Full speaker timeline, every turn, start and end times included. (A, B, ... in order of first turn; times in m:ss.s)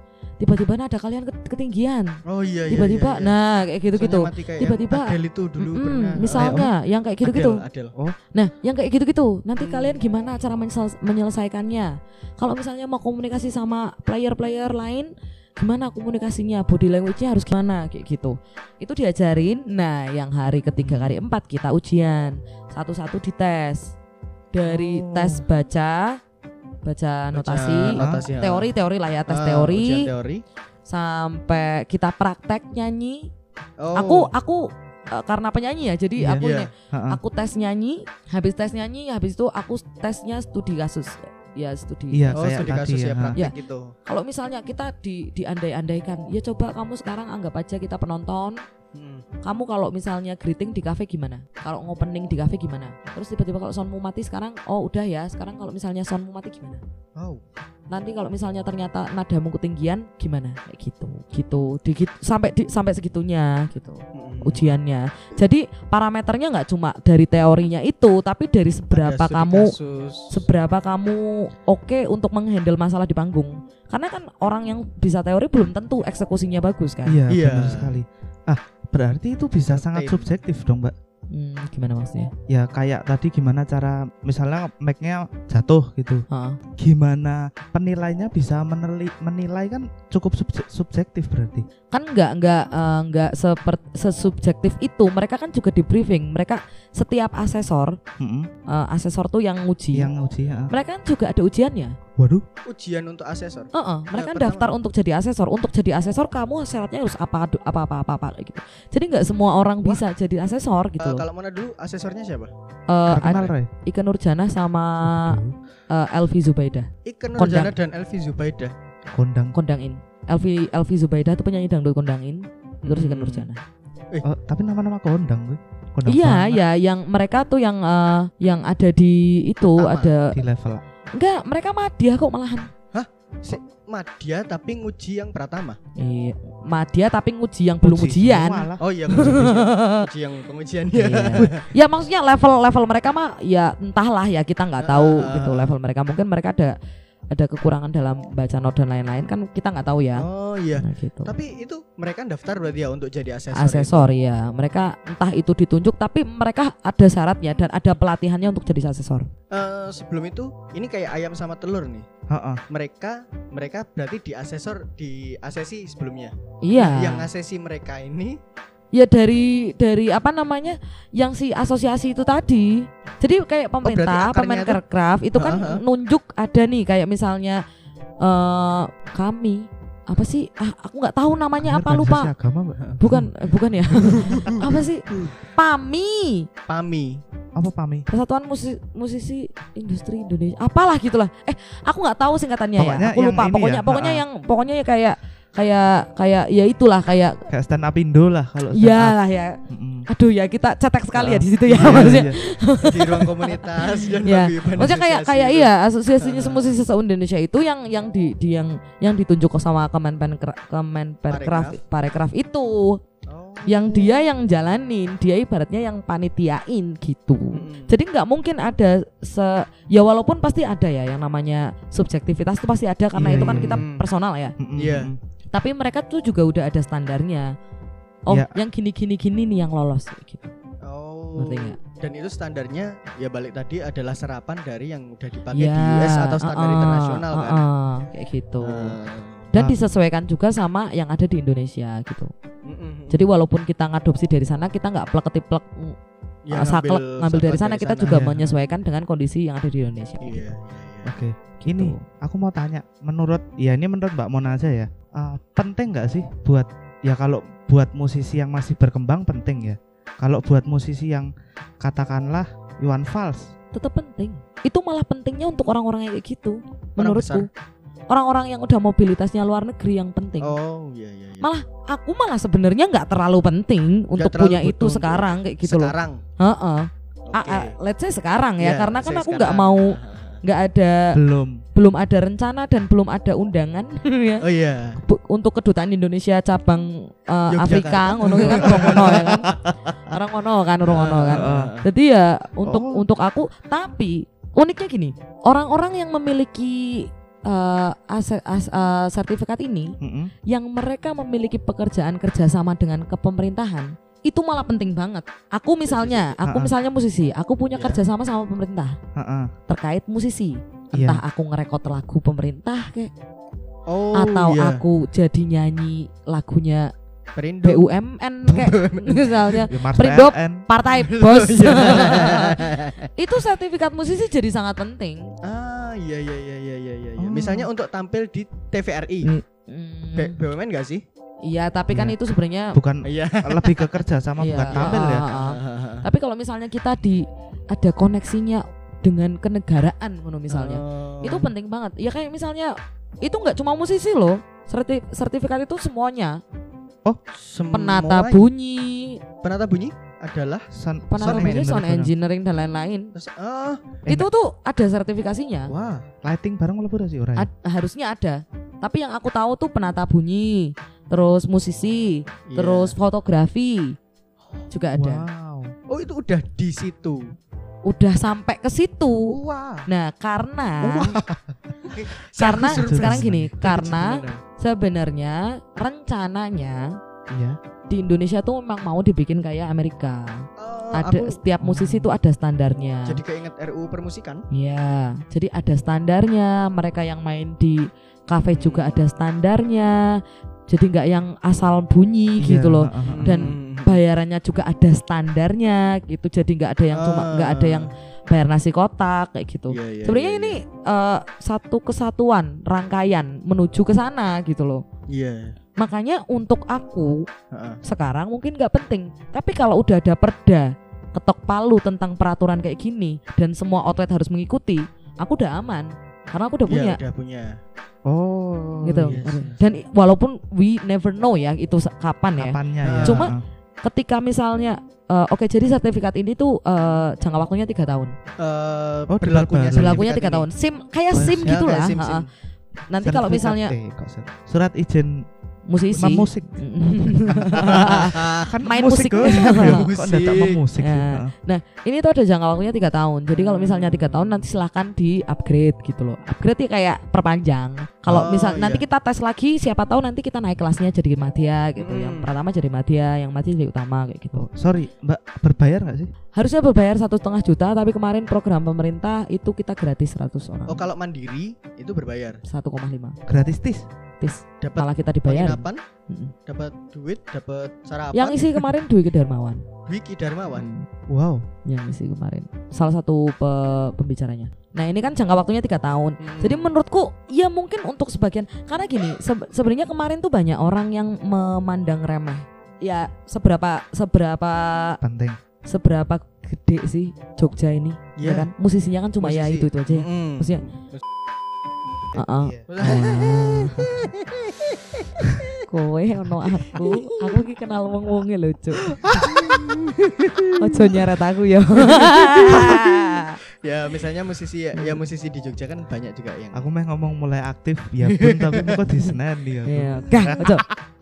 0:00.4-0:07.6 A
0:02.3-0:03.4 B
0:04.0-0:06.6 B
0:06.2-0:06.7 C
0:07.2-0:07.9 B
0:08.3-0:23.9 A
0:09.6-0:10.0 B
0:24.5-0:26.2 A
0:24.7-0:25.4 C
0:26.8-0:30.1 A
0:27.3-0:28.7 B
0:27.9-0:28.3 C
0:29.3-0:30.4 B
0:30.9-0:33.3 A
0:33.8-0:34.3 B
0:34.0-0:42.5 A
0:36.2-0:37.2 C
0:36.4-0:36.7 B
0:42.1-0:43.4 C
0:42.4-0:43.9 B
0:44.1-0:48.6 A
0:48.9-0:49.2 B
0:49.4-0:56.8 A
0:57.2-0:57.4 B
0:57.9-1:09.7 A
1:04.1-1:04.6 B
1:08.9-1:10.5 B
1:10.3-1:17.2 A
1:17.1-1:20.9 C
1:17.3-1:18.0 B
1:19.7-1:20.3 B
1:21.3-1:22.3 A
1:22.5-1:26.2 C
1:26.3-1:26.6 A
1:26.8-1:31.7 C
1:31.9-1:38.0 A
1:38.2-1:38.5 C
1:38.7-1:40.1 A
1:39.9-1:40.7 C
1:40.7-1:42.0 A
1:42.2-1:42.4 C
1:42.7-1:44.7 B
1:43.7-1:51.2 A
1:51.0-1:52.5 B
1:52.9-1:55.4 A
1:53.1-1:53.7 C
1:53.2-1:53.5 B
1:55.0-1:55.6 C
1:55.9-1:57.7 A
1:57.0-1:58.7 B
1:59.1-1:59.6 C
1:59.5-2:03.6 A
2:02.8-2:03.5 B
2:04.2-2:06.6 C
2:06.1-2:10.4 A
2:09.8-2:10.1 B
2:10.3-2:10.8 C
2:11.2-2:12.7 A
2:12.9-2:15.8 B
2:16.0-2:20.1 A
2:17.8-2:18.8 C
2:18.8-2:21.7 B
2:21.0-2:26.8 A
2:24.8-2:25.8 B
2:27.3-2:30.2 A
2:30.2-2:34.1 B
2:30.8-2:31.3 A
2:33.6-2:39.3 A
2:39.5-2:42.1 B
2:42.3-2:42.6 C
2:42.7-2:48.4 B
2:46.6-2:47.3 A
2:48.9-2:57.6 A
2:53.8-2:54.8 B
2:55.4-2:55.8 B
2:58.2-3:02.3 A
3:01.6-3:03.3 C
3:03.0-3:06.5 A
3:03.9-3:05.3 B
3:06.7-3:07.2 B
3:07.6-3:08.1 C
3:08.1-3:17.4 A
3:12.8-3:14.2 C
3:17.5-3:19.2 C
3:18.7-3:33.0 A
3:19.7-3:20.1 C
3:21.2-3:26.8 B
3:21.7-3:22.4 C
3:31.3-3:31.8 B
3:33.3-3:34.3 B
3:33.7-3:44.6 A
3:37.5-3:37.9 B
3:43.2-3:43.8 C
3:43.3-3:44.1 B
3:44.6-3:45.2 C
3:44.8-3:45.1 B
3:45.5-3:47.5 A
3:48.3-3:50.5 A
3:50.8-3:57.6 B
3:51.4-3:51.8 A
3:55.5-3:59.0 A
3:58.6-3:59.5 B
3:59.5-4:02.3 A
4:02.6-4:03.2 B
4:03.1-4:06.0 A
4:06.5-4:08.4 B
4:06.5-4:10.5 A
4:08.1-4:08.4 C
4:10.2-4:11.2 B
4:11.0-4:23.5 C
4:11.6-4:12.0 A
4:23.7-4:27.5 A
4:27.0-4:27.5 B
4:28.1-4:30.6 A
4:30.4-4:31.5 B
4:31.4-4:41.2 A
4:34.2-4:36.2 B
4:37.3-4:37.8 B
4:38.6-4:40.4 B
4:41.2-4:41.6 C
4:41.7-4:44.4 A
4:44.4-4:45.0 B
4:45.0-4:49.5 A
4:47.5-4:49.6 B
4:48.2-4:49.8 C
4:50.1-5:00.0 A
4:50.9-4:51.9 B
4:51.3-4:51.7 C
4:52.7-4:53.0 C
5:00.0-5:00.3 C
5:00.5-5:09.0 A
5:05.9-5:06.4 B
5:06.4-5:06.7 C
5:07.8-5:08.0 B
5:09.2-5:09.5 C
5:09.7-5:13.1 A
5:10.9-5:11.2 C
5:13.9-5:14.8 B
5:14.1-5:16.9 A
5:17.4-5:17.9 B
5:17.6-5:25.3 A
5:18.5-5:19.6 B
5:19.6-5:20.6 C
5:20.9-5:23.1 B
5:25.4-5:29.3 B
5:27.2-5:27.7 C
5:29.2-5:30.4 A
5:30.2-5:31.0 B
5:31.4-5:32.8 A
5:32.7-5:35.2 C
5:33.0-5:34.0 B
5:34.4-5:46.4 A
5:34.6-5:36.1 B
5:40.5-5:41.5 B
5:47.3-5:48.4 B
5:47.7-5:49.2 A
5:49.4-5:50.7 B
5:50.7-5:52.1 C
5:51.1-5:53.1 A
5:51.2-5:51.6 B
5:53.2-5:54.0 B
5:54.1-5:55.7 A
5:55.7-5:57.5 C
5:57.4-6:04.0 A
6:02.5-6:03.0 B
6:04.7-6:05.2 A
6:04.9-6:05.7 C
6:05.9-6:07.3 B
6:07.9-6:09.4 A
6:09.3-6:09.9 C
6:09.9-6:11.2 A
6:10.8-6:11.4 C
6:11.8-6:14.4 B
6:12.4-6:17.0 A
6:12.7-6:13.5 C
6:17.3-6:17.6 C
6:17.9-6:23.2 A
6:20.6-6:21.4 B
6:21.6-6:22.1 C
6:23.1-6:24.4 B
6:24.5-6:44.8 A
6:28.5-6:29.0 B
6:32.4-6:33.5 C
6:33.1-6:34.0 B
6:37.0-6:37.9 B
6:39.7-6:40.6 B
6:45.1-6:45.6 B
6:45.8-6:47.3 A
6:47.5-6:47.8 B
6:47.8-6:57.0 A
6:56.7-6:57.6 B
6:58.1-6:59.2 C
6:58.8-7:08.2 A
6:59.0-6:59.6 B
7:02.4-7:03.4 C
7:02.8-7:03.3 B
7:08.4-7:10.5 B
7:09.1-7:10.0 C
7:09.7-7:12.3 A
7:11.1-7:11.6 C
7:11.4-7:12.3 B
7:12.9-7:13.8 A
7:13.0-7:15.3 C
7:15.7-7:19.8 A
7:16.0-7:16.6 C
7:17.5-7:21.3 C
7:17.6-7:18.5 B
7:19.2-7:20.6 B
7:20.8-7:34.5 A
7:23.3-7:24.4 B
7:28.1-7:28.8 B
7:31.8-7:32.3 B
7:34.3-7:36.1 C
7:36.4-7:40.8 A
7:40.7-7:42.4 B
7:42.5-7:43.2 A
7:43.3-7:43.8 C
7:44.2-7:46.3 A
7:44.6-7:45.8 B
7:46.5-7:48.6 B
7:48.1-7:49.6 A
7:49.9-7:50.7 B
7:50.5-7:50.9 A
7:51.1-7:51.4 C
7:51.7-8:05.0 A
7:56.2-7:56.7 B
8:05.0-8:05.4 C
8:05.7-8:10.6 A
8:08.2-8:08.5 B
8:09.2-8:11.0 B
8:12.1-8:13.2 C
8:12.2-8:14.0 A
8:12.7-8:15.6 B
8:15.7-8:18.9 A
8:16.7-8:17.3 B
8:19.0-8:19.8 C
8:19.1-8:20.6 B
8:20.6-8:23.4 A
8:21.9-8:26.7 B
8:24.8-8:25.0 A
8:26.5-8:30.7 C
8:28.0-8:28.9 B
8:29.7-8:30.7 A